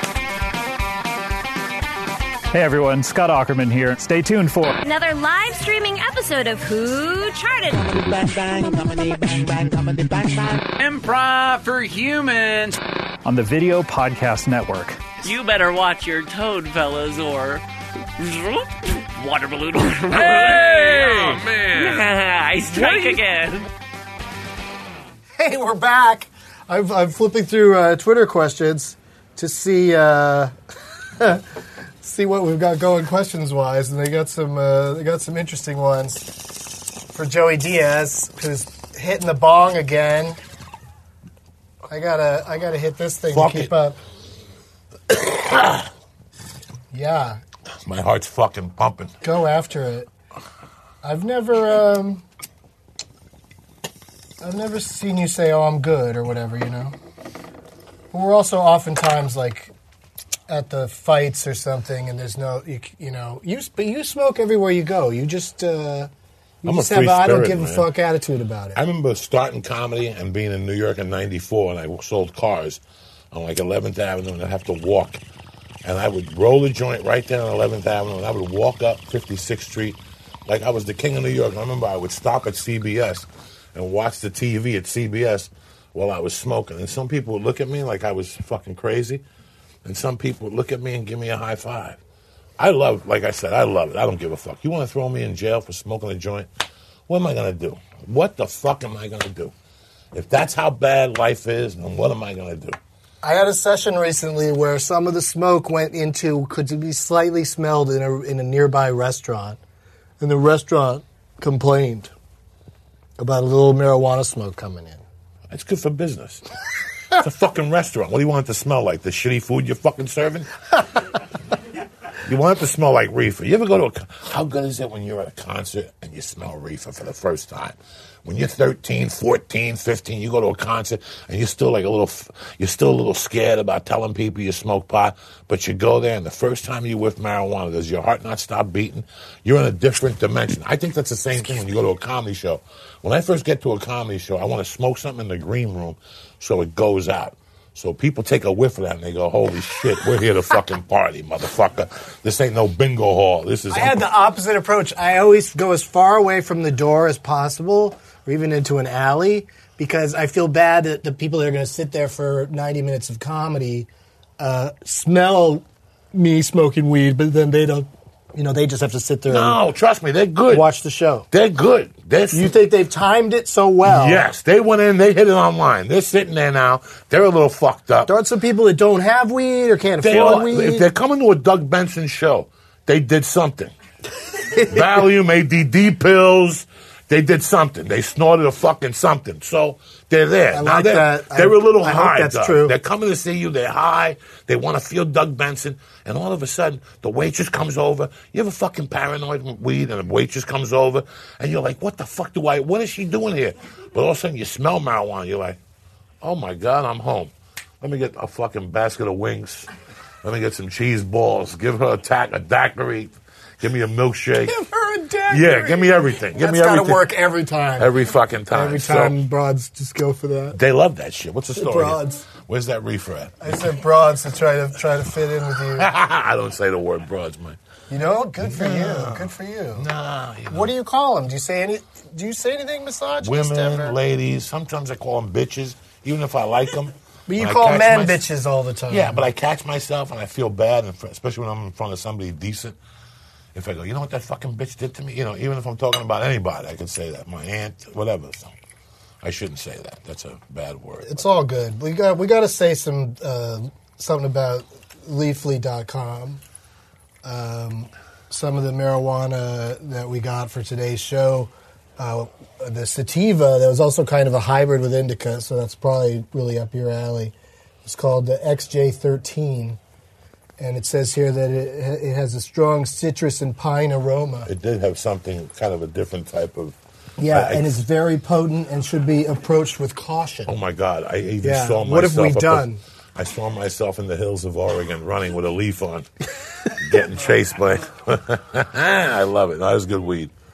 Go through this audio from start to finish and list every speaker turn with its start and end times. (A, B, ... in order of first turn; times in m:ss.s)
0:02.5-0:04.8 A
0:04.8-0:08.0 B
0:10.8-0:12.8 C
0:13.2-0:15.0 A
0:15.2-0:17.6 D
0:18.2-0:23.7 D
0:20.1-0:22.1 E
0:20.3-0:21.9 C
0:22.7-0:23.2 C
0:25.4-0:30.5 F
0:31.2-0:31.4 F
0:32.0-0:36.3 F
0:37.1-0:40.4 F
0:41.9-0:44.0 F
0:43.3-0:43.7 E
0:45.1-0:45.9 E
0:46.9-0:47.4 F
0:47.8-0:49.2 E
0:49.2-0:50.1 F
0:51.0-0:52.2 F
0:54.4-0:57.0 F
0:58.1-0:59.7 F
1:00.5-1:06.1 F
1:06.6-1:08.8 F
1:06.6-1:07.9 E
1:08.8-1:12.8 E
1:13.3-1:15.2 E
1:15.8-1:29.2 E
1:29.8-1:32.0 E
1:32.6-1:36.5 E
1:37.1-1:39.5 E
1:40.1-1:42.8 E
1:43.2-1:49.6 F
1:50.2-1:52.1 F
1:53.2-1:55.0 F
1:55.5-1:56.4 E
1:57.1-2:00.5 E
2:02.2-2:34.1 E
2:33.7-2:43.9 F
2:44.4-2:49.6 F
2:49.3-2:50.7 E
2:50.5-2:51.3 F
2:51.3-2:52.6 E
2:52.3-2:54.3 F
2:53.8-2:58.1 E
2:58.1-3:00.9 F
3:00.0-3:03.7 E
3:04.4-3:04.9 F
3:04.6-3:25.6 E
3:10.5-3:12.8 F
3:26.2-3:29.7 E
3:30.2-3:34.6 E
3:34.4-3:37.9 F
3:35.3-3:37.1 E
3:37.8-3:39.2 E
3:38.5-3:40.6 F
3:40.5-3:43.7 E
3:41.6-3:42.3 F
3:43.4-3:45.9 F
3:45.7-3:47.6 E
3:47.9-3:49.9 F
3:48.4-3:50.7 E
3:50.5-3:54.0 F
3:53.2-3:58.3 E
3:57.3-3:59.2 F
3:58.9-4:02.8 E
4:03.6-4:08.5 E
4:09.2-4:11.2 E
4:11.0-4:16.4 F
4:17.2-4:27.3 F
4:27.8-4:29.8 F
4:30.6-4:34.5 F
4:34.5-4:36.8 E
4:37.2-4:40.5 F
4:37.3-4:37.8 E
4:40.5-4:46.1 E
4:41.4-4:42.8 F
4:46.7-4:50.3 E